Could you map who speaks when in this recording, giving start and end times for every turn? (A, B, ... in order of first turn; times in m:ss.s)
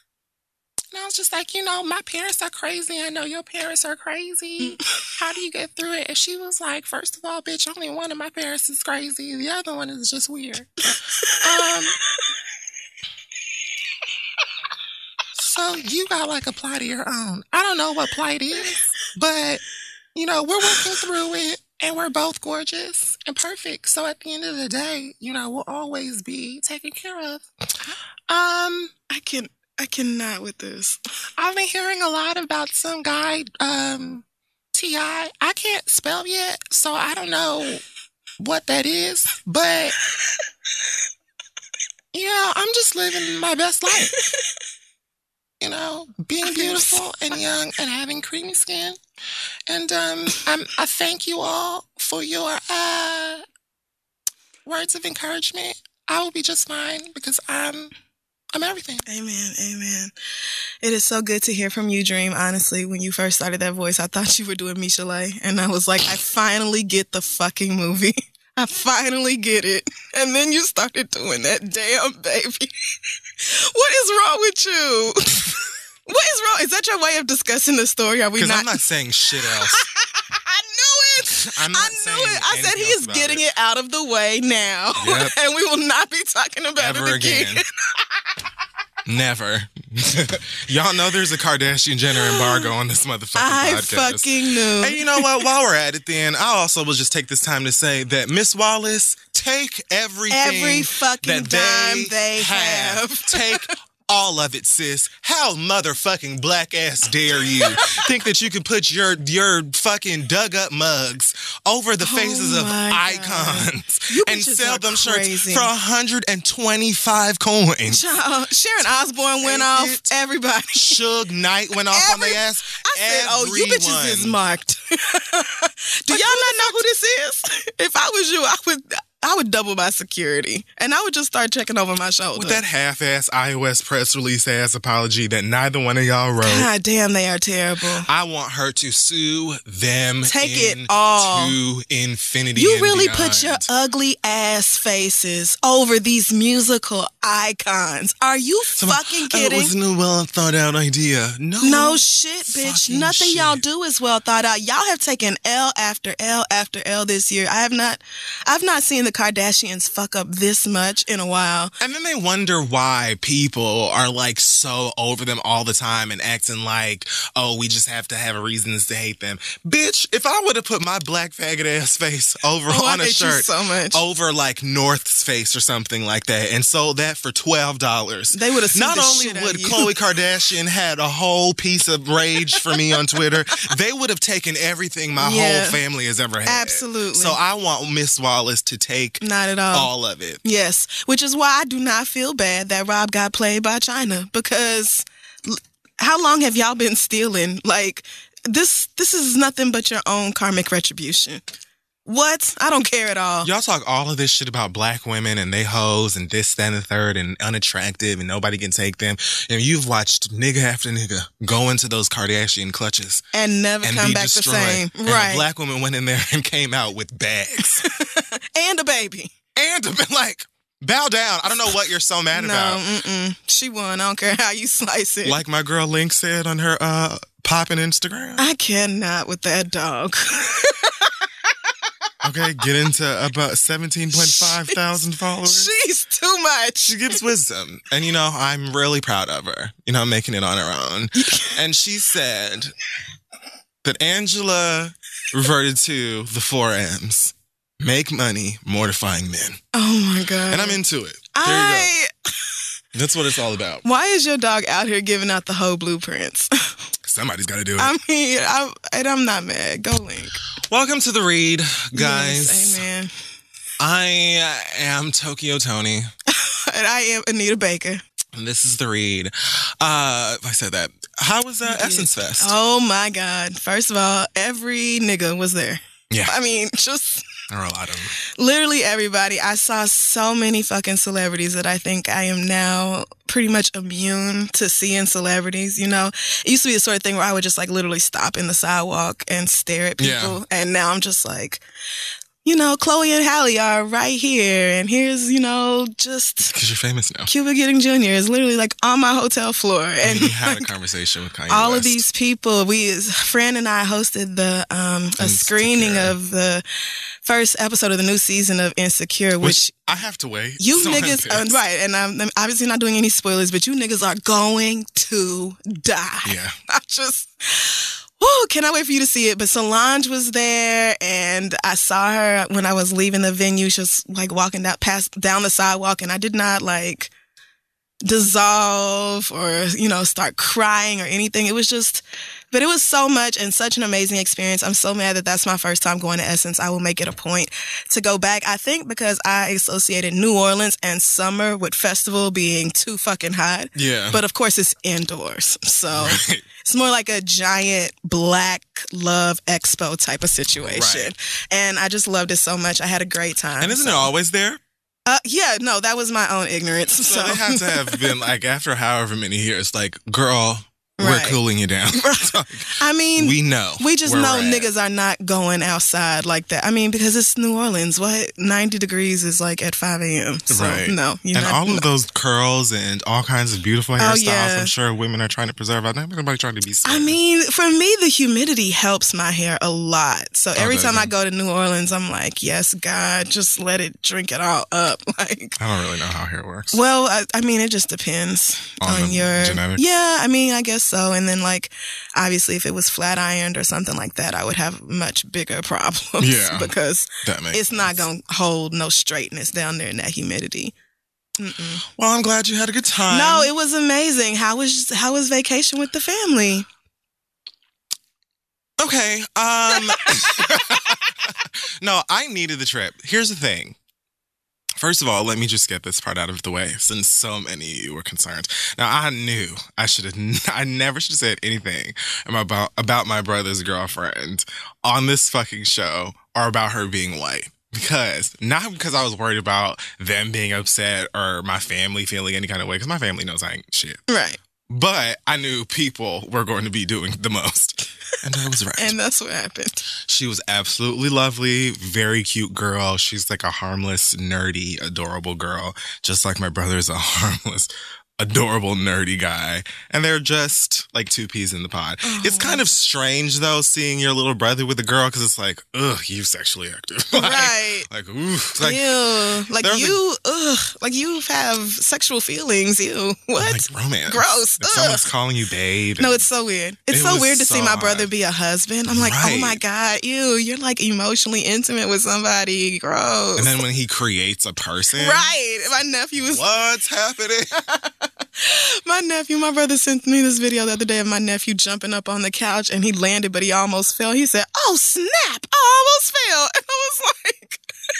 0:00.9-0:12.0 A
0:15.4-0:19.6 A
0:20.2-0:28.9 A
0:29.1-0:31.0 B
0:31.4-0:37.8 A
0:38.4-0:40.0 A
0:42.1-0:44.2 A
0:45.6-0:49.0 A
0:46.5-0:47.1 B
0:49.7-0:53.4 A
0:54.6-0:57.9 A
0:58.5-0:59.0 A
0:59.1-1:00.1 B
1:00.8-1:18.8 B
1:18.4-1:19.8 C
1:19.6-1:27.6 B
1:21.3-1:23.4 C
1:25.0-1:25.4 C
1:26.8-1:27.6 C
1:29.0-1:58.0 C
1:32.1-1:32.7 B
1:33.4-1:35.4 B
1:40.3-1:43.7 B
1:52.0-1:55.7 B
1:57.9-2:01.0 B
1:59.4-2:00.1 C
2:00.8-2:04.4 C
2:01.9-2:12.6 B
2:12.4-2:16.7 C
2:16.4-2:18.1 B
2:18.1-2:23.7 C
2:20.2-2:21.6 B
2:22.6-2:29.7 B
2:28.8-2:33.6 C
2:31.6-2:41.7 B
2:41.8-3:10.4 C
2:52.7-2:54.0 B
2:58.3-2:59.9 B
3:05.2-3:05.8 B
3:06.4-3:07.4 B
3:09.2-3:09.9 B
3:10.4-3:21.4 B
3:22.1-3:23.5 B
3:23.4-3:33.2 C
3:33.3-3:35.5 B
3:33.8-3:37.9 C
3:37.7-3:39.3 B
3:39.6-3:42.8 C
3:42.3-3:45.4 B
3:45.2-3:48.5 C
3:48.4-3:51.1 B
3:52.2-3:55.7 C
3:54.1-3:54.8 B
3:55.5-3:57.2 B
3:56.8-4:02.7 C
4:01.2-4:01.6 B
4:03.8-4:09.6 C
4:09.7-4:10.8 B
4:10.5-4:11.9 C
4:11.3-4:12.1 B
4:12.9-4:13.8 C
4:13.8-4:16.8 B
4:17.0-4:17.9 C
4:17.8-4:20.4 B
4:20.6-4:22.8 C
4:21.9-4:23.1 B
4:23.8-4:26.1 C
4:26.3-4:28.0 B
4:28.3-4:32.5 C
4:31.6-4:37.2 B
4:37.5-4:38.2 C
4:38.4-4:51.6 B
4:50.0-4:50.4 C
4:52.4-4:56.6 B
4:56.5-4:57.3 C
4:57.3-5:00.7 B
5:00.0-5:02.0 C
5:01.5-5:06.6 B
5:05.2-5:06.2 C
5:07.2-5:09.8 B
5:09.4-5:11.6 C
5:10.6-5:27.1 B
5:16.2-5:16.6 C
5:28.0-5:54.1 B
5:43.8-5:44.2 C
5:45.9-5:46.4 C
5:50.7-5:51.1 C
5:53.6-5:54.6 C
5:55.1-5:58.1 B
5:57.0-6:04.7 C
6:01.0-6:01.4 B
6:01.9-6:11.8 B
6:10.5-6:17.2 C
6:14.0-6:14.7 B
6:16.8-6:25.6 B
6:20.6-6:21.1 C
6:25.6-6:26.8 C
6:26.7-6:40.7 B
6:28.8-6:29.8 C
6:36.2-6:38.0 C
6:41.4-6:41.8 B
6:42.0-6:43.5 C
6:43.1-6:46.7 B
6:48.8-6:53.8 C
6:54.8-7:14.0 C
7:14.1-7:14.4 B
7:14.7-7:19.0 C
7:18.8-7:19.8 B
7:20.0-7:40.0 C
7:32.0-7:32.6 B
7:37.1-7:37.9 B
7:38.6-7:45.0 B
7:43.4-7:46.3 C
7:46.0-7:53.5 B
7:46.9-7:48.1 C
7:48.9-7:49.6 C
7:53.4-7:55.3 C
7:55.0-7:56.4 B
7:56.2-7:57.6 C
7:57.8-8:07.6 B